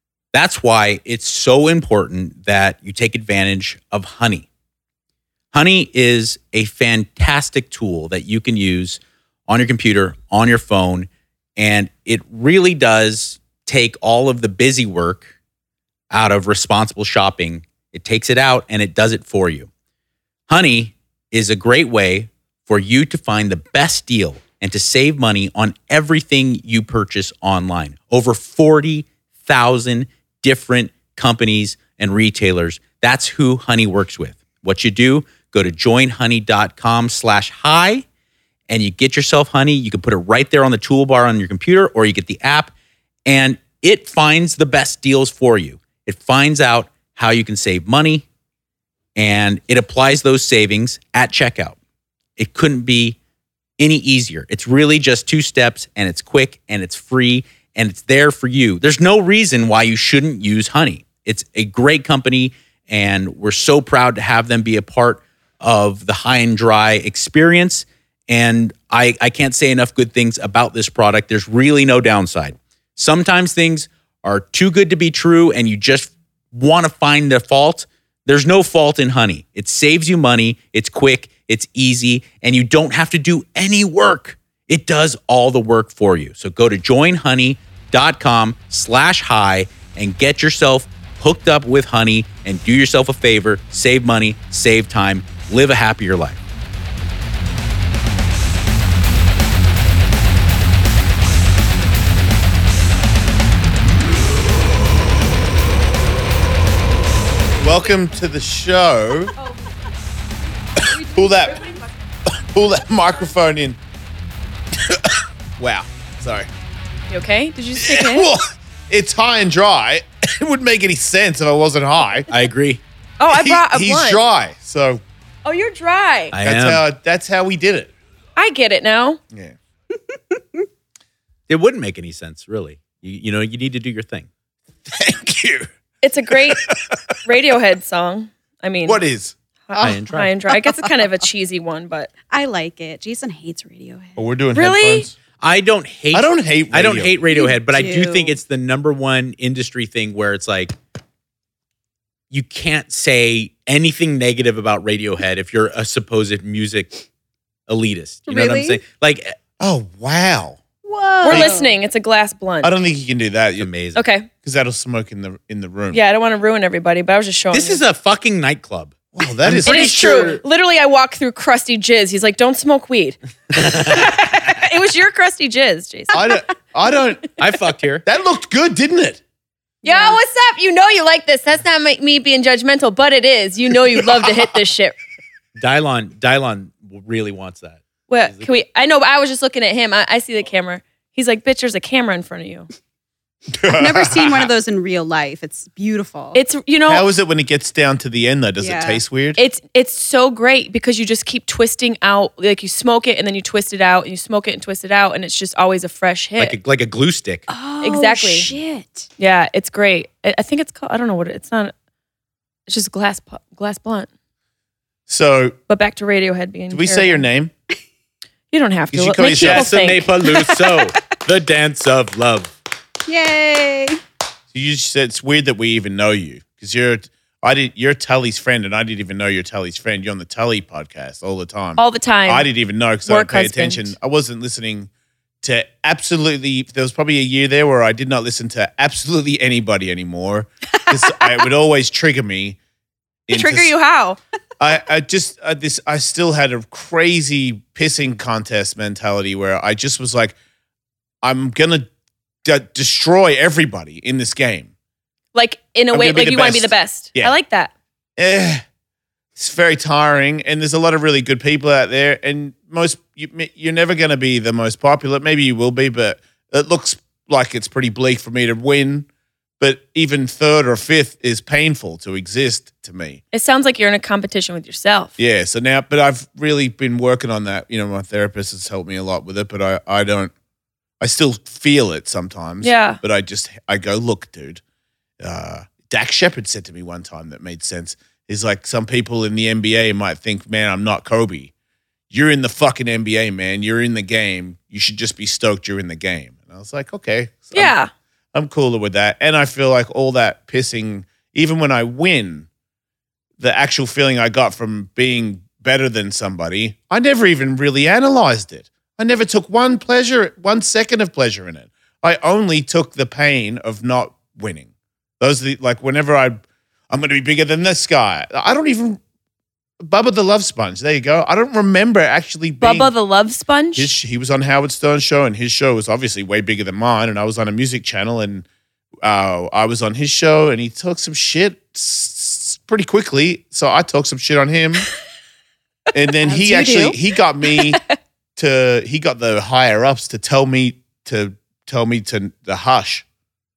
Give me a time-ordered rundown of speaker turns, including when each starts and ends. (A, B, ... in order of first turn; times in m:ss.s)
0:00.3-0:04.5 A
0:05.5-0:15.3 A
0:16.1-0:19.7 A
0:20.5-0:38.0 A
0:38.7-0:42.7 A
0:43.2-0:48.2 A
0:49.2-0:51.8 A
0:52.4-0:53.2 A
0:53.8-1:36.4 A
1:47.6-1:49.3 B
1:49.4-1:49.8 C
1:50.7-1:52.0 C
1:51.1-1:51.6 B
1:52.3-1:53.8 B
1:54.8-1:56.5 B
1:57.1-1:58.3 D
1:57.8-2:02.3 B
2:02.3-2:02.8 A
2:03.2-2:04.2 D
2:03.3-2:05.0 B
2:05.4-2:06.3 D
2:06.3-2:06.8 A
2:06.4-2:07.9 B
2:08.4-2:09.2 D
2:11.5-2:14.3 A
2:14.8-2:15.7 B
2:16.0-2:19.0 D
2:16.3-2:17.1 B
2:18.8-2:19.3 B
2:19.7-2:22.1 D
2:19.8-2:20.3 A
2:20.5-2:20.8 C
2:22.3-2:24.2 C
2:24.2-2:25.1 B
2:24.5-2:25.1 D
2:25.4-2:30.8 A
2:26.1-2:27.2 B
2:27.3-2:28.4 C
2:32.3-2:37.0 A
2:37.7-2:39.3 A
2:38.3-2:38.8 C
2:39.6-2:40.6 B
2:40.8-2:41.7 C
2:41.2-2:42.8 D
2:41.2-2:41.5 B
2:42.6-2:43.7 B
2:43.6-2:44.0 A
2:43.9-2:44.3 D
2:44.4-2:46.0 B
2:45.9-2:47.8 D
2:47.5-2:50.4 A
2:49.1-2:50.3 B
2:49.6-2:56.4 D
2:53.5-2:54.4 A
2:56.1-2:57.3 B
2:57.4-2:58.0 A
2:58.0-2:59.2 B
2:59.8-3:00.2 C
2:59.8-3:05.0 D
3:04.0-3:04.5 B
3:05.6-3:08.5 A
3:08.1-3:12.7 D
3:13.5-3:14.5 B
3:13.7-3:16.4 C
3:16.3-3:17.0 D
3:16.9-3:19.4 B
3:18.6-3:19.0 C
3:19.4-3:26.6 D
3:26.4-3:27.5 A
3:27.5-3:29.1 C
3:27.8-3:28.6 D
3:29.2-3:31.7 D
3:32.7-3:34.1 D
3:35.1-3:35.6 B
3:35.7-3:37.2 D
3:36.7-3:37.5 B
3:38.5-3:40.1 D
3:38.9-3:39.8 B
3:39.4-3:42.5 A
3:40.2-3:40.8 C
3:43.1-3:44.0 C
3:44.5-3:54.9 B
3:51.8-3:52.5 D
3:53.0-3:53.9 D
3:55.4-4:02.6 B
4:03.3-4:03.7 B
4:03.3-4:04.2 D
4:04.6-4:10.4 B
4:11.2-4:11.9 B
4:12.4-4:14.7 B
4:15.3-4:17.7 D
4:15.9-4:17.3 B
4:18.2-4:18.6 B
4:19.4-4:29.1 B
4:29.6-4:33.2 B
4:33.3-4:35.1 D
4:35.2-4:40.3 B
4:41.0-4:44.6 B
4:42.6-4:43.0 D
4:45.2-4:51.5 B
4:52.1-4:57.7 B
4:57.5-4:57.9 D
4:58.3-5:02.5 B
5:03.4-5:14.7 B
5:15.2-5:19.0 B
5:19.8-5:22.9 B
5:22.6-5:23.9 D
5:23.8-5:28.4 B
5:29.0-5:34.9 B
5:35.9-5:37.8 B
5:36.2-5:37.0 C
5:38.4-5:43.0 B